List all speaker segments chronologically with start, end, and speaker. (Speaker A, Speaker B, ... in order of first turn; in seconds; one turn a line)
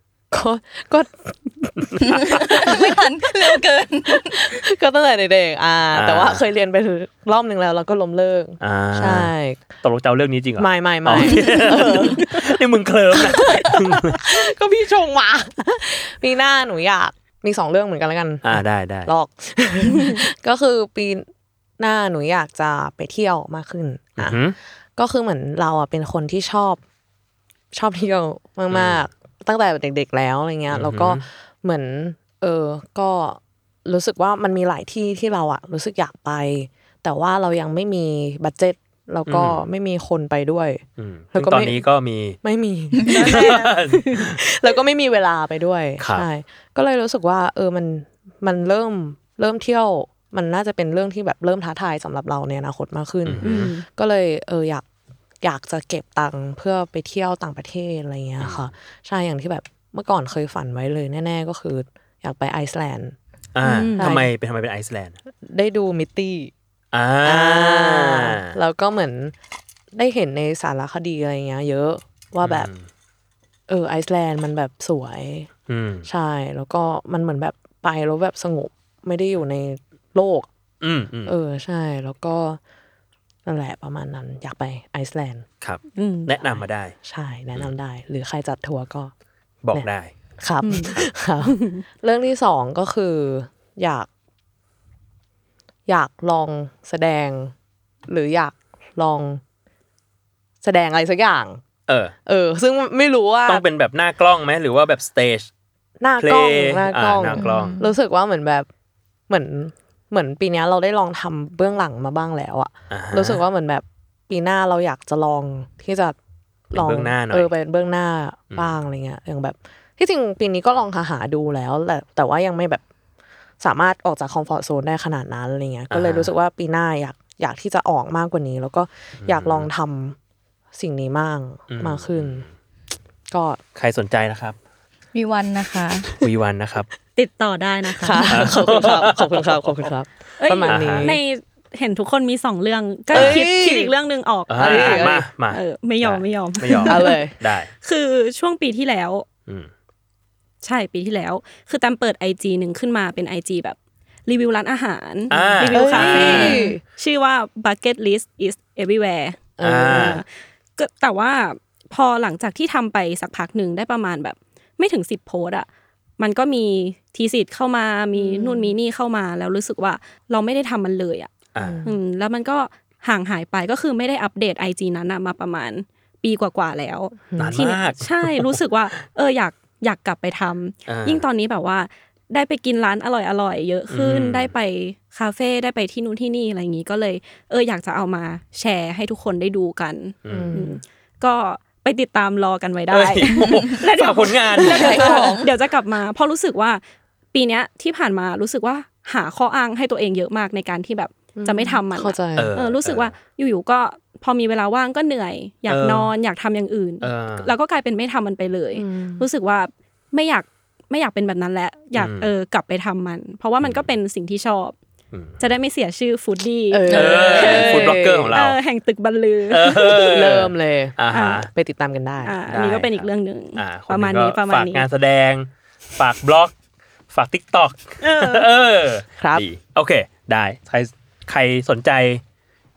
Speaker A: 0.3-3.6
Speaker B: 2.0-4.6
Speaker A: 4.1-9.7
Speaker C: 5.9-6.4
Speaker C: 8.6-14.2
Speaker A: 10.6-12.6
Speaker A: 13.1-21.3
Speaker C: 18.4-19.1
Speaker D: 19.9-20.2
Speaker A: 21.8-24.4
Speaker C: 24.2-24.6
Speaker A: 25.0-26.8
Speaker A: 27.7-40.8
Speaker C: 28.7-29.1
Speaker C: 30.7-31.2
Speaker C: 39.3-39.6
Speaker C: 41.0-42.4
Speaker A: 41.3-41.8
Speaker A: 42.4-54.8
Speaker C: 43.0-44.4
Speaker D: 43.0-43.6
Speaker C: 46.0-46.2
Speaker C: 53.2-53.7
Speaker D: 53.4-53.9
Speaker A: 55.4-63.1
Speaker C: 58.4-58.7
Speaker C: 63.5-65.2
Speaker D: 63.6-64.1
Speaker A: 64.0-64.3
Speaker A: 65.4-66.5
Speaker C: 66.9-68.5
Speaker A: 67.2-69.3
Speaker A: 69.9-72.7
Speaker C: 72.4-72.8
Speaker A: 73.7-75.5
Speaker C: 75.7-76.1
Speaker A: 76.0-80.5
Speaker C: 80.8-81.3
Speaker A: 81.2-82.6
Speaker A: 83.5-85.4
Speaker C: 85.6-86.9
Speaker D: 86.0-86.3
Speaker A: 87.0-89.1
Speaker C: 89.6-90.1
Speaker A: 90.4-94.1
Speaker D: 90.6-91.8
Speaker A: 95.9-97.5
Speaker A: 98.1-99.4
Speaker A: 100.6-101.6
Speaker C: 101.9-102.1
Speaker A: 102.2-103.6
Speaker C: 103.5-105.5
Speaker A: 106.0-108.7
Speaker C: 106.2-107.8
Speaker B: 107.4-107.9
Speaker A: 109.3-116.2
Speaker C: 112.9-113.4
Speaker A: 116.7-122.8
Speaker C: 116.7-117.5
Speaker A: 123.6-130.2
Speaker C: 125.9-126.3
Speaker C: 129.2-129.7
Speaker A: 130.7-132.4
Speaker C: 131.7-132.5
Speaker A: 133.3-133.6
Speaker C: 133.7-134.6
Speaker B: 135.1-136.2
Speaker C: 136.2-136.9
Speaker D: 137.2-138.9
Speaker A: 138.0-141.2
Speaker C: 138.3-139.7
Speaker D: 140.4-147.2
Speaker C: 140.7-141.2
Speaker C: 143.1-143.5
Speaker A: 143.1-143.9
Speaker C: 144.5-147.7
Speaker A: 144.5-145.2
Speaker A: 146.8-147.3
Speaker D: 147.8-149.2
Speaker D: 150.6-165.7
Speaker C: 155.3-156.6
Speaker A: 155.7-156.8
Speaker A: 159.6-160.2
Speaker C: 159.6-160.2
Speaker D: 166.2-171.3
Speaker A: 168.2-168.7
Speaker C: 171.5-171.9
Speaker A: 171.6-171.9
Speaker D: 171.8-196.8
Speaker A: 177.3-177.6
Speaker C: 177.4-178.6
Speaker C: 180.9-181.2
Speaker C: 183.9-184.5
Speaker C: 190.2-190.7
Speaker A: 190.3-190.8
Speaker C: 192.9-195.2
Speaker B: 194.6-195.5
Speaker D: 197.3-214.7
Speaker A: 201.4-202.6
Speaker C: 202.3-203.1
Speaker C: 205.7-206.1
Speaker C: 207.0-207.5
Speaker A: 208.7-209.2
Speaker C: 211.9-212.3
Speaker C: 213.6-213.9
Speaker C: 215.1-215.4
Speaker D: 215.4-220.4
Speaker A: 216.7-218.4
Speaker C: 216.9-218.6
Speaker C: 219.5-221.5
Speaker A: 219.9-222.4
Speaker D: 221.1-221.4
Speaker D: 222.2-224.8
Speaker C: 222.5-226.5
Speaker C: 227.1-232.2
Speaker D: 228.0-228.5
Speaker A: 229.2-229.4